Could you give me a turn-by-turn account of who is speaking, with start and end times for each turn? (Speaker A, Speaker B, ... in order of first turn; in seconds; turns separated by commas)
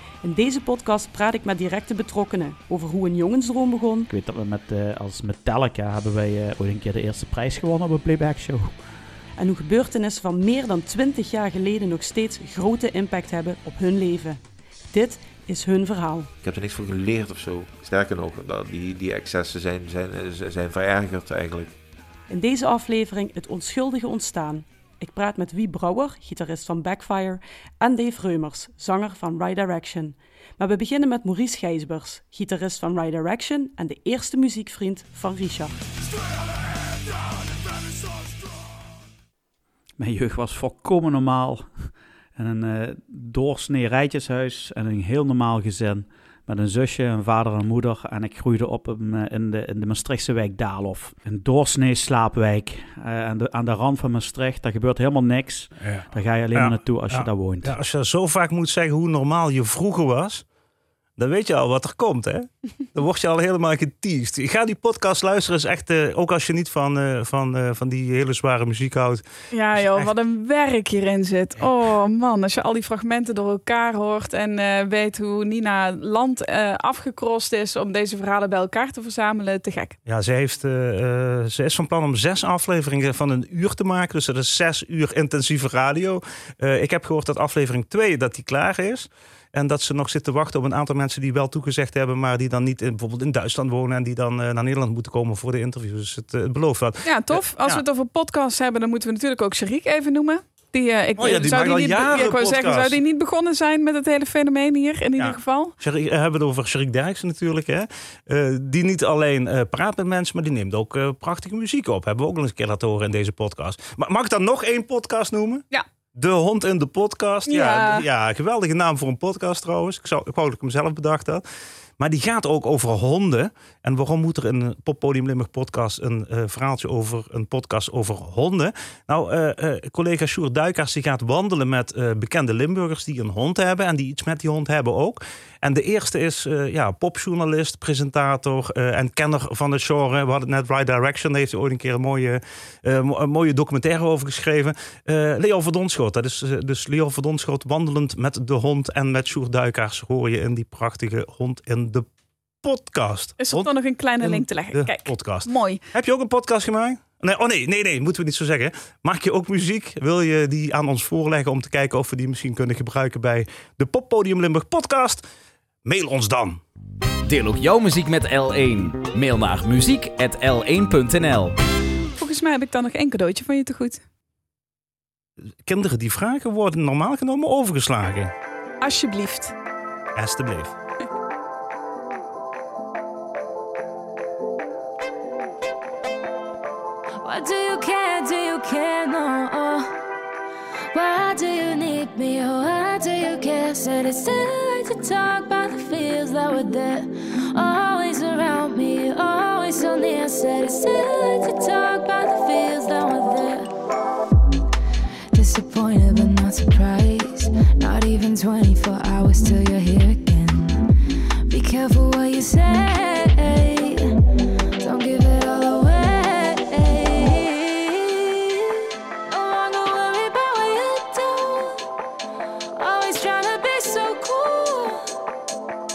Speaker A: 0.2-4.1, Speaker B: 4.1-8.8, Speaker A: 9.4-14.4, Speaker A: 14.9-16.3, Speaker C: 16.4-21.8, Speaker A: 22.3-35.8, Speaker B: 40.0-57.8, Speaker D: 55.8-60.4, Speaker D: 61.2-70.1, Speaker E: 69.5-80.0, Speaker D: 80.1-97.8, Speaker E: 97.0-105.8, Speaker D: 101.2-103.0, Speaker D: 105.2-121.4, Speaker E: 117.5-118.1, Speaker D: 122.0-152.1, Speaker D: 152.6-165.3, Speaker E: 153.4-155.8, Speaker D: 165.8-166.6, Speaker F: 167.3-171.5, Speaker E: 172.2-174.0, Speaker D: 175.7-178.3, Speaker E: 178.8-179.5, Speaker D: 180.2-180.7, Speaker G: 187.2-189.9, Speaker G: 190.9-203.7, Speaker G: 205.3-210.8, Speaker G: 211.5-214.1, Speaker G: 214.8-218.7, Speaker G: 219.3-221.8, Speaker G: 222.8-225.1